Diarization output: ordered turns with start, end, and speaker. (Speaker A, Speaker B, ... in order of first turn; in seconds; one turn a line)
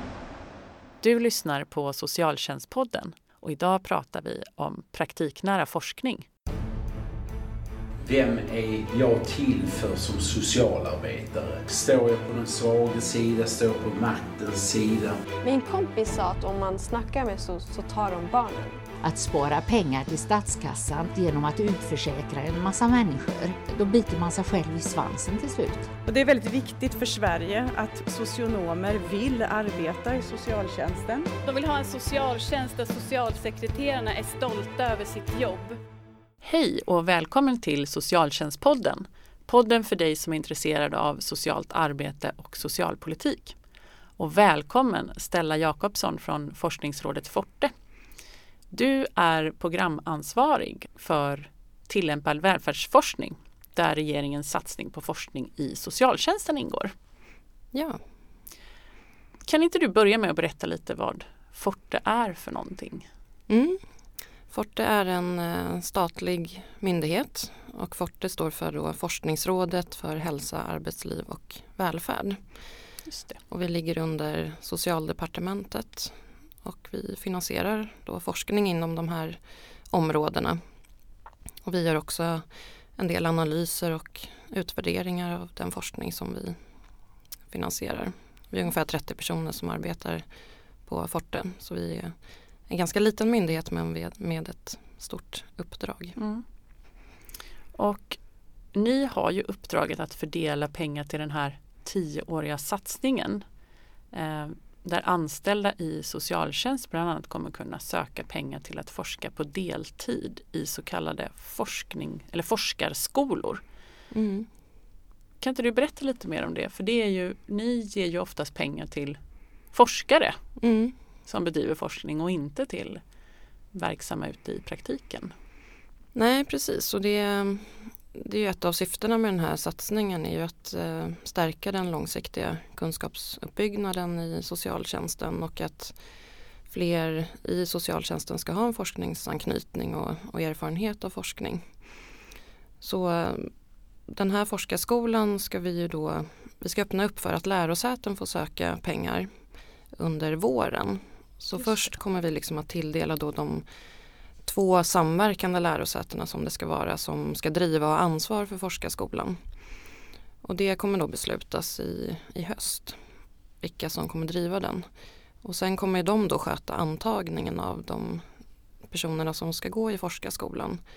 Speaker A: 1.0-6.3
Speaker B: 8.0-15.2
Speaker C: 15.4-18.8
Speaker D: 19.0-25.9
Speaker E: 26.1-31.3
Speaker F: 31.4-35.8
Speaker A: 36.4-43.6
Speaker A: 44.2-47.7
Speaker A: 48.7-56.9
Speaker G: 57.7-58.0
Speaker A: 59.5-63.1
Speaker G: 63.5-63.8
Speaker G: 64.5-72.7
Speaker A: 73.0-73.4
Speaker G: 73.5-80.6
Speaker G: 81.6-86.6
Speaker G: 87.5-90.2
Speaker G: 90.8-92.2
Speaker G: 92.7-96.2
Speaker A: 96.2-96.4
Speaker A: 97.7-98.2
Speaker A: 98.7-103.4
Speaker A: 104.1-113.6
Speaker G: 114.1-114.5
Speaker A: 115.4-119.2
Speaker A: 119.7-120.4
Speaker G: 120.6-120.9
Speaker A: 121.2-123.0
Speaker A: 123.7-125.3
Speaker G: 126.1-136.0
Speaker G: 136.7-141.7
Speaker G: 142.8-143.5
Speaker G: 144.1-149.3
Speaker G: 149.9-153.7
Speaker A: 151.6-151.9
Speaker G: 154.4-159.4
Speaker G: 160.4-163.0
Speaker G: 163.6-164.8
Speaker G: 165.4-168.2
Speaker G: 168.8-170.8